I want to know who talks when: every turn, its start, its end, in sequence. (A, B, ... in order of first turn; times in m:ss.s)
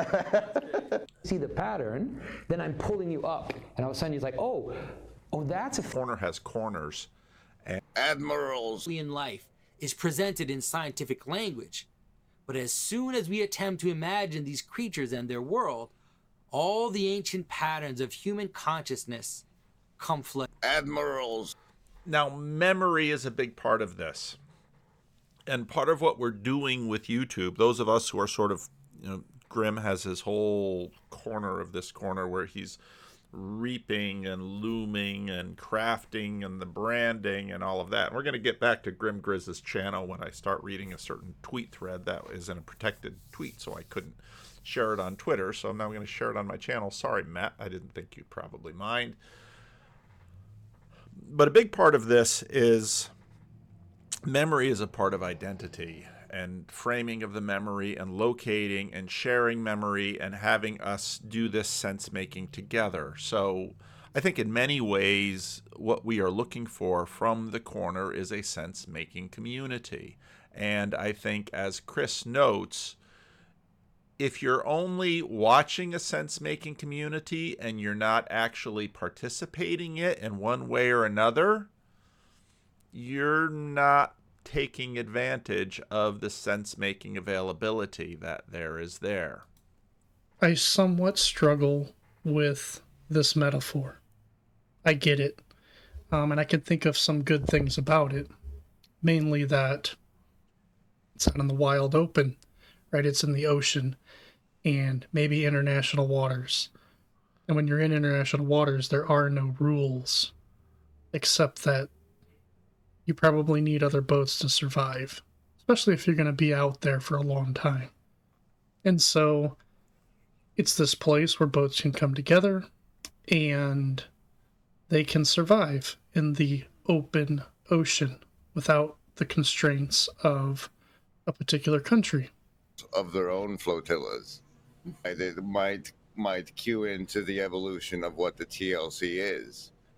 0:01.2-0:05.9 A
0:05.9-0:07.1 B
0:08.0-0:08.9 C
0:08.9-0:11.9 D
0:12.5-0:15.9 D
0:16.5-0:19.4 D
0:20.0-0:20.5 D
0:20.6-0:21.5 C
0:22.1-0:24.4 B
0:25.5-0:32.8 B
0:33.3-0:49.2 B
0:51.2-0:53.1 B
0:54.2-1:13.0 B
1:14.2-1:21.7 B
1:22.9-1:29.4 B
1:30.4-1:34.0 E
1:34.8-1:35.4 E
1:36.1-1:38.3 E
1:39.0-1:40.0 E
1:41.2-1:42.4 E
1:42.9-1:44.0 E
1:44.6-1:46.7 E
1:47.5-1:50.3 E
1:51.1-1:51.9 E
1:53.1-1:57.9 E
1:58.8-1:59.6 E
2:00.6-2:02.7 E
2:03.3-2:04.1 E
2:04.9-2:10.7 E
2:11.3-2:12.3 E
2:12.8-2:14.4 C
2:15.0-2:19.7 C